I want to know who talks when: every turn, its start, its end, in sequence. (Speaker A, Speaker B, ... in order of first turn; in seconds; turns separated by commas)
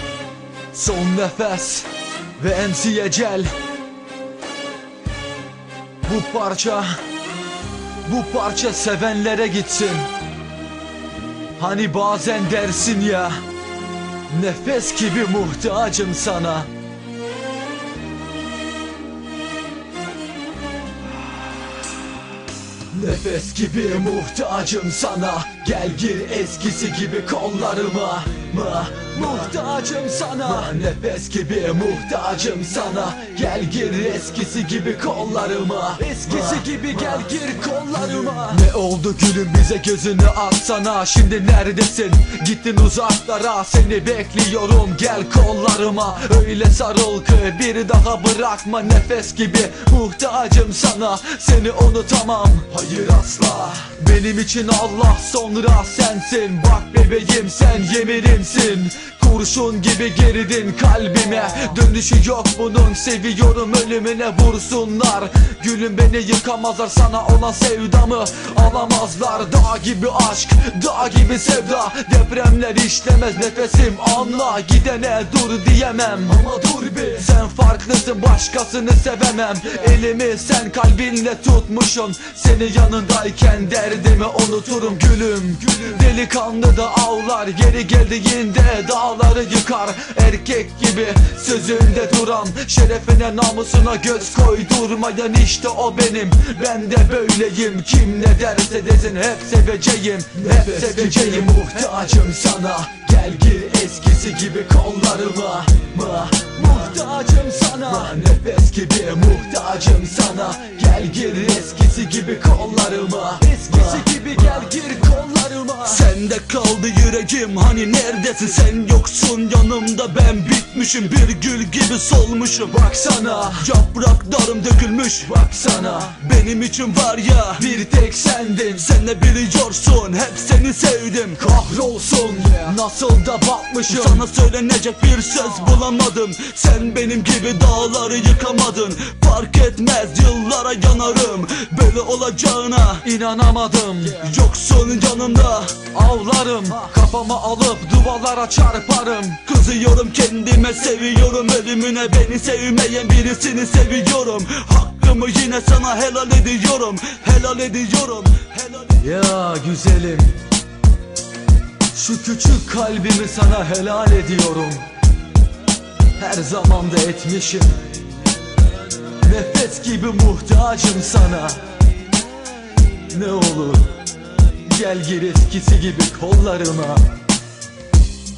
Speaker A: 0.7-3.5, Speaker A: 6.0-7.0, Speaker A: 8.1-10.1, Speaker A: 11.6-13.4, Speaker A: 14.3-16.7, Speaker A: 22.9-116.0, Speaker B: 114.3-114.7, Speaker B: 115.8-122.8, Speaker A: 122.7-123.7, Speaker B: 123.5-125.3, Speaker A: 125.2-126.2, Speaker B: 126.0-127.7, Speaker A: 127.6-128.9, Speaker B: 128.7-131.4, Speaker A: 131.4-134.2, Speaker B: 133.9-143.1, Speaker A: 143.0-144.3, Speaker B: 144.2-145.8, Speaker A: 145.9-149.4, Speaker B: 149.4-159.0, Speaker A: 159.0-160.4, Speaker A: 161.9-164.8, Speaker A: 166.2-167.9, Speaker A: 169.1-171.7, Speaker A: 173.0-174.0, Speaker A: 174.6-177.1